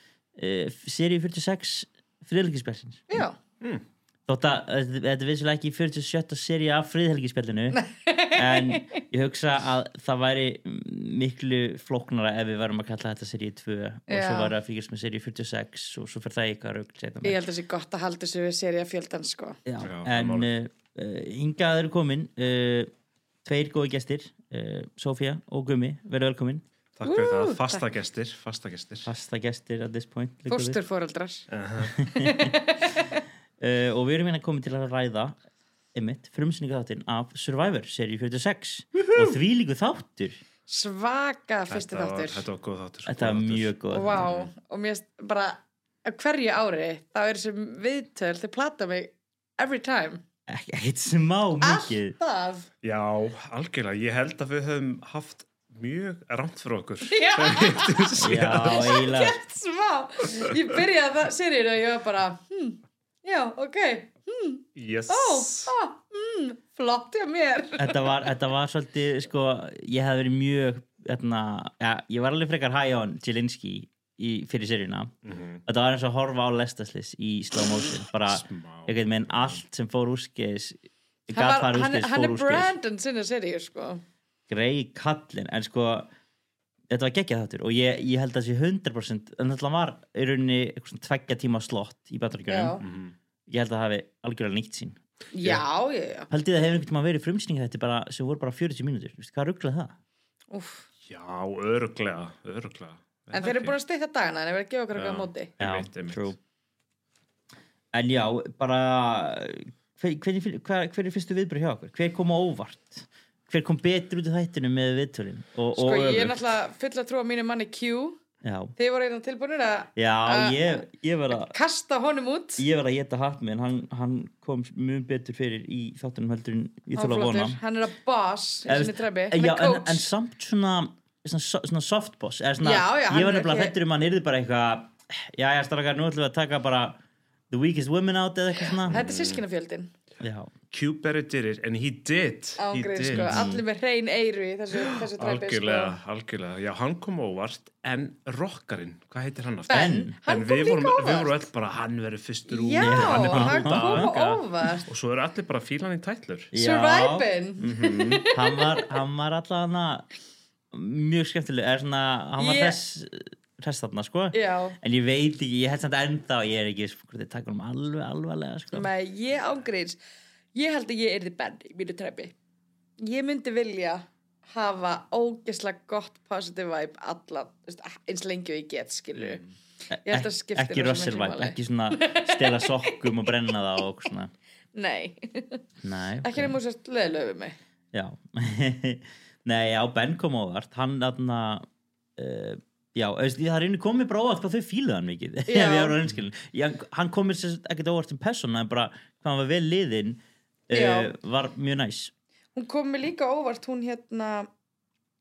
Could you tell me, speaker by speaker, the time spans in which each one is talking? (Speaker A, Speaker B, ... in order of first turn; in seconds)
Speaker A: 0.3-3.2, 4.3-7.8, 8.3-17.4, 19.6-22.9, 23.4-26.6, 29.0-30.8, 32.0-32.5, 33.6-35.4, 35.9-40.4, 43.1-44.2, 50.5-52.1, 58.2-59.4, 67.8-75.1, 75.6-82.7, 84.5-86.1, 86.9-92.8, 93.5-95.0, 96.3-99.9, 105.6-106.4, 107.9-116.4, 118.4-118.7, 120.0-121.5, 122.6-127.6, 128.7-137.0, 137.5-139.0, 140.2-140.5, 143.1-143.6, 149.7-150.1, 152.8-154.0, 156.5-160.1, 160.7-168.9, 179.9-184.3, 185.8-186.6, 187.9-191.7, 192.2-202.1
Speaker B: 3.1-3.4, 7.7-8.9, 14.1-14.5, 17.2-19.6, 27.0-27.8, 30.5-31.5, 32.1-33.2, 40.7-42.4, 43.9-50.2, 51.6-52.7, 57.1-68.1, 81.3-84.0, 92.5-92.8, 95.3-96.3, 100.5-100.8, 103.3-105.5, 115.8-118.2, 118.8-122.6, 126.9-130.0, 132.6-133.7, 138.8-139.9, 142.6-145.9, 149.7-151.5, 152.5-154.9, 156.6-158.8, 162.4-162.8, 164.3-164.8, 168.7-170.0, 170.5-172.3, 173.0-179.4, 180.1-183.0, 184.7-185.6, 186.2-187.6, 195.5-195.9, 200.7-201.1, 202.5-204.5
Speaker C: 19.8-20.5, 27.0-29.1, 31.5-31.9, 41.7-44.5, 52.8-58.9, 64.8-65.7, 75.2-75.6, 78.3-79.6, 92.8-93.1, 101.1-103.7, 104.9-106.3, 138.9-139.4, 140.7-143.5, 145.0-156.5, 157.7-158.2, 179.1-179.5